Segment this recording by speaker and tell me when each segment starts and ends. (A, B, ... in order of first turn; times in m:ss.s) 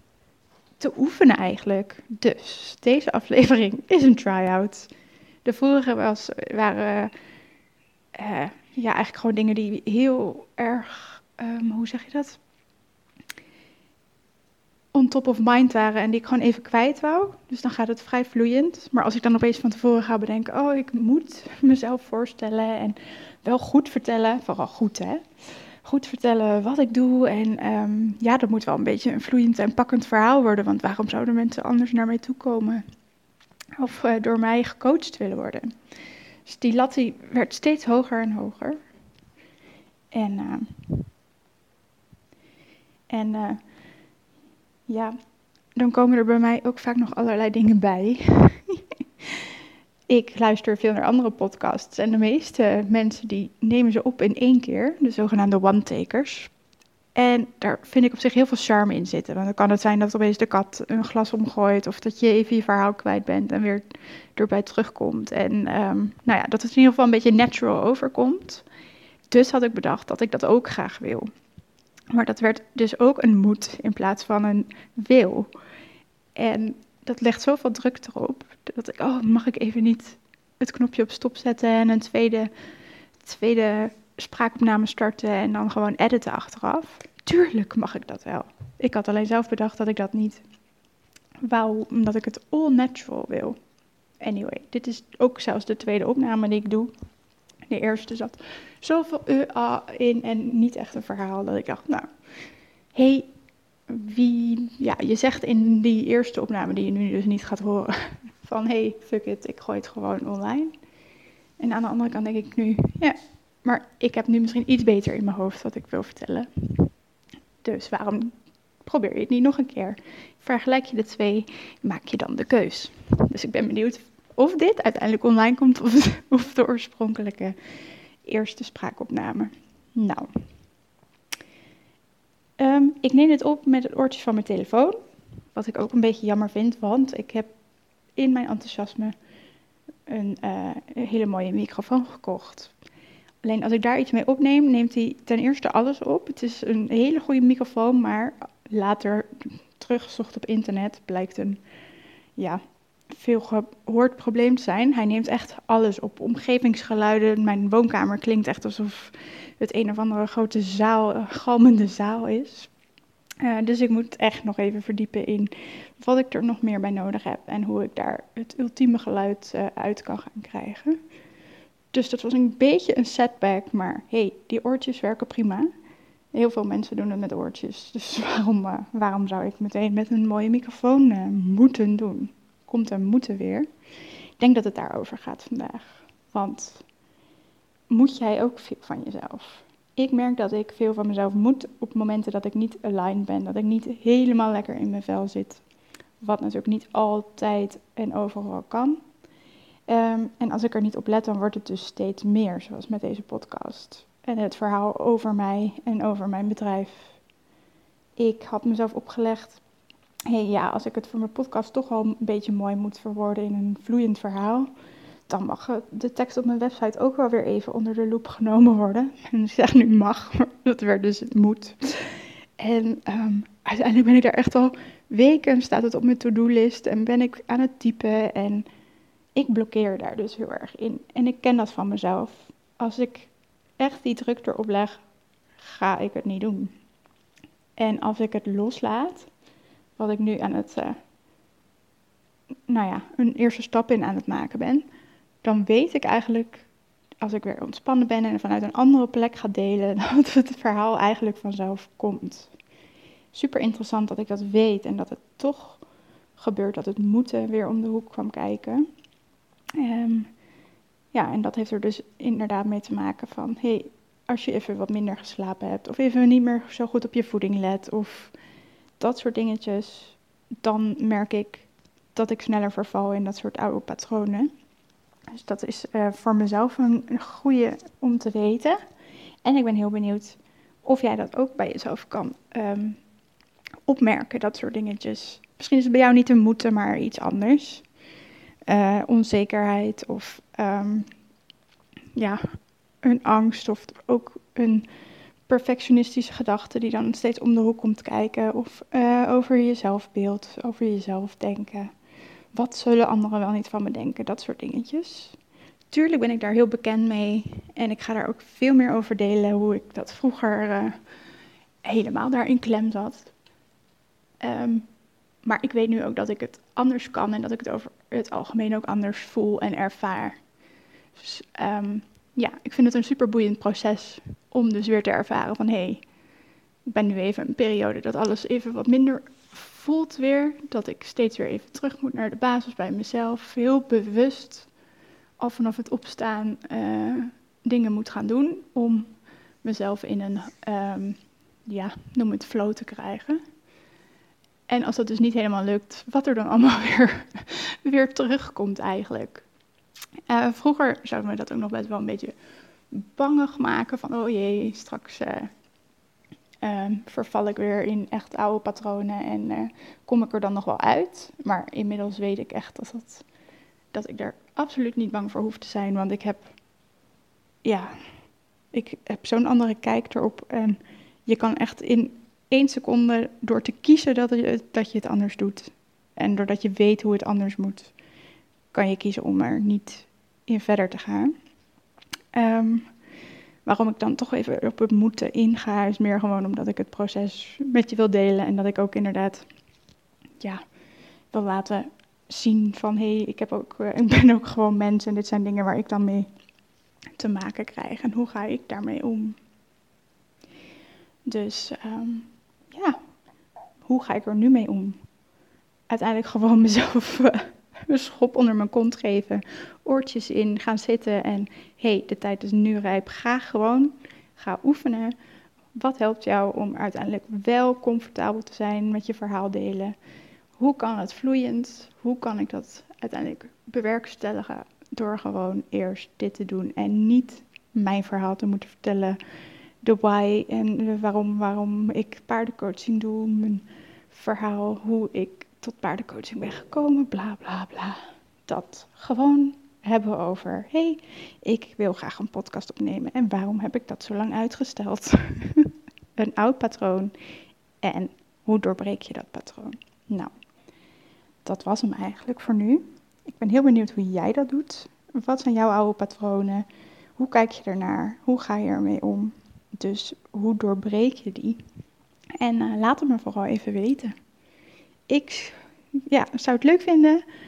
0:00.8-0:04.9 A
0:05.4-0:07.1 A
0:08.2-0:12.4 A
0:14.9-0:32.8 A
0:33.8-0:35.8 A
0:36.4-0:38.8 A
0:40.1-0:41.1 A
0:43.1-0:43.7 A
0:44.9-0:45.2 A
0:45.7-0:49.4 A
0:50.1-0:56.6 A
0:57.2-1:08.6 A
1:09.3-1:11.3 A
1:12.1-1:15.5 A
1:16.3-1:22.5 A
1:23.2-1:30.4 A
1:31.4-1:33.6 A
1:34.2-1:36.9 A
1:37.6-1:43.3 A
1:43.9-1:50.8 A
1:51.6-1:57.0 A
1:57.6-2:10.5 A
2:12.6-2:17.5 A
2:18.2-2:19.2 A
2:20.1-2:22.7 A
2:23.4-2:31.6 A
2:32.4-2:42.7 A
2:43.4-2:51.0 A
2:51.9-2:55.7 A
2:56.3-3:06.9 A
3:07.9-3:15.6 A
3:16.2-3:19.0 A
3:19.9-3:27.2 A
3:28.2-3:29.6 A
3:30.3-3:34.7 A
3:35.3-3:48.7 A
3:49.3-3:55.0 A
3:55.6-3:56.7 A
3:57.8-3:59.3 A
4:00.0-4:01.0 A
4:02.7-4:04.8 A
4:05.4-4:06.7 A
4:07.2-4:12.6 A
4:13.3-4:18.9 A
4:19.8-4:20.5 A
4:21.1-4:28.4 A
4:29.0-4:34.5 A
4:35.3-4:38.9 A
4:39.4-4:43.0 A
4:43.9-4:47.9 A
4:48.7-4:51.1 A
4:52.1-5:02.0 A
5:02.5-5:05.4 A
5:05.9-5:11.2 A
5:11.8-5:13.4 A
5:14.4-5:20.5 A
5:21.1-5:26.1 A
5:26.9-5:34.7 A
5:35.4-5:43.4 A
5:44.7-5:49.5 A
5:50.3-5:55.5 A
5:56.6-6:03.2 A
6:03.9-6:06.5 A
6:07.6-6:18.0 A
6:18.7-6:21.3 A
6:22.3-6:23.0 A
6:23.6-6:29.5 A
6:31.3-6:36.3 A
6:37.1-6:39.4 A
6:41.2-6:43.0 A
6:43.8-6:45.0 A
6:45.9-6:55.1 A
6:55.7-7:00.0 A
7:00.5-7:09.2 A
7:09.8-7:30.3 A
7:31.4-7:41.6 A
7:42.4-7:44.1 A
7:45.1-7:47.2 A